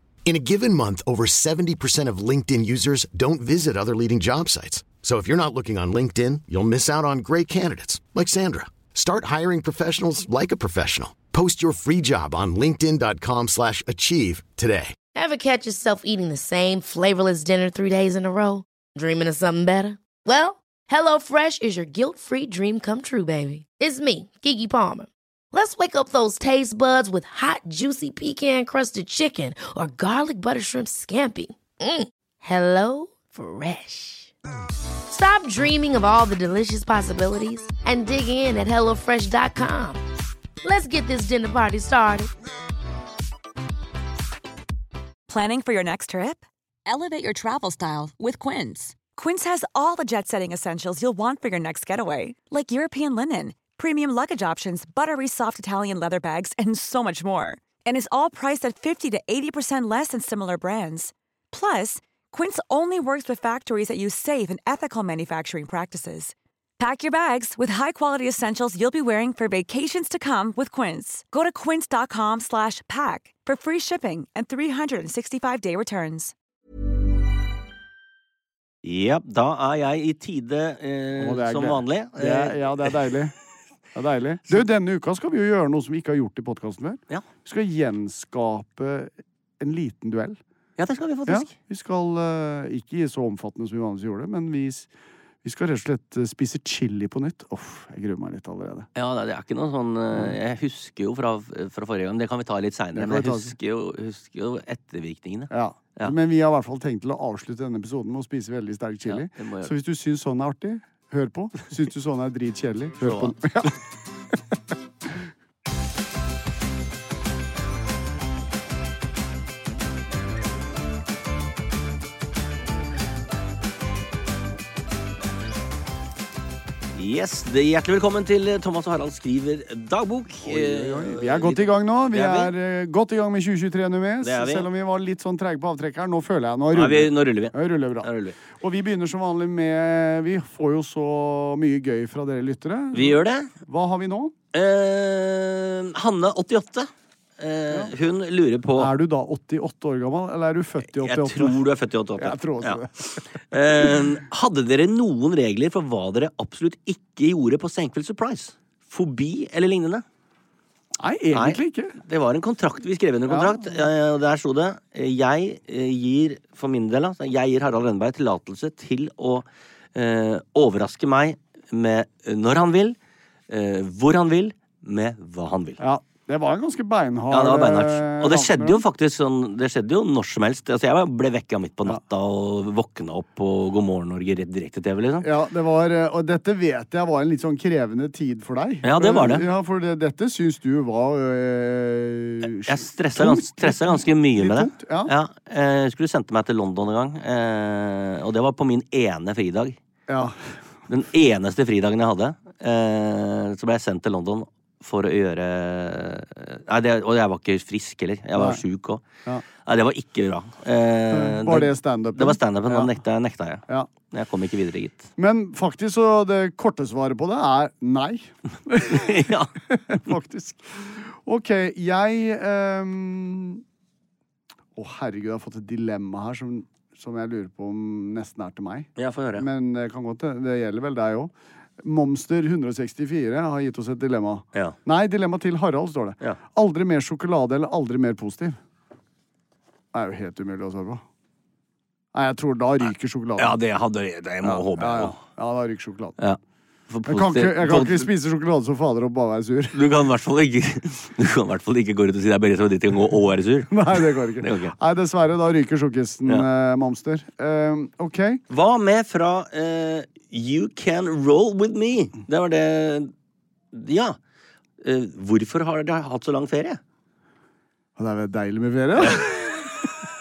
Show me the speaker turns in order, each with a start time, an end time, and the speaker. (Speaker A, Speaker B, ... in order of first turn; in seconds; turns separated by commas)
Speaker A: 0.2-14.9, Speaker B: 15.2-34.3, Speaker B: 35.1-40.0, Speaker B: 40.6-42.3, Speaker C: 45.3-76.3, Speaker D: 78.8-82.9, Speaker E: 81.2-83.3, Speaker E: 84.0-90.4, Speaker D: 90.8-91.5, Speaker E: 91.3-94.9, Speaker E: 95.4-98.9, Speaker D: 99.0-106.1, Speaker E: 102.9-103.6, Speaker E: 105.5-113.7, Speaker D: 109.1-109.7, Speaker D: 113.0-113.7, Speaker D: 126.9-132.5, Speaker E: 130.4-144.3, Speaker D: 134.2-134.7, Speaker D: 136.7-138.4, Speaker D: 142.9-143.5, Speaker D: 144.5-148.9, Speaker E: 148.8-151.6, Speaker D: 150.9-160.0, Speaker E: 152.2-154.0, Speaker E: 161.0-162.0, Speaker D: 161.3-173.0, Speaker E: 163.3-163.7, Speaker D: 173.5-175.8, Speaker E: 175.8-178.8, Speaker D: 177.3-185.3, Speaker E: 185.2-195.1, Speaker D: 188.8-189.5, Speaker D: 192.6-199.8, Speaker E: 200.1-200.4, Speaker D: 200.9-209.0, Speaker E: 208.3-208.6, Speaker D: 209.6-215.1, Speaker E: 211.1-213.0, Speaker E: 215.2-223.6, Speaker D: 218.8-219.6, Speaker E: 224.8-238.6, Speaker D: 229.0-229.5, Speaker E: 239.9-241.0, Speaker E: 242.1-243.6, Speaker D: 243.4-245.2, Speaker E: 244.4-246.2, Speaker D: 246.2-248.1, Speaker E: 247.1-249.8, Speaker D: 249.7-254.8, Speaker E: 253.7-258.4, Speaker D: 258.5-263.1, Speaker D: 263.7-264.2, Speaker D: 264.8-266.8, Speaker E: 268.0-269.7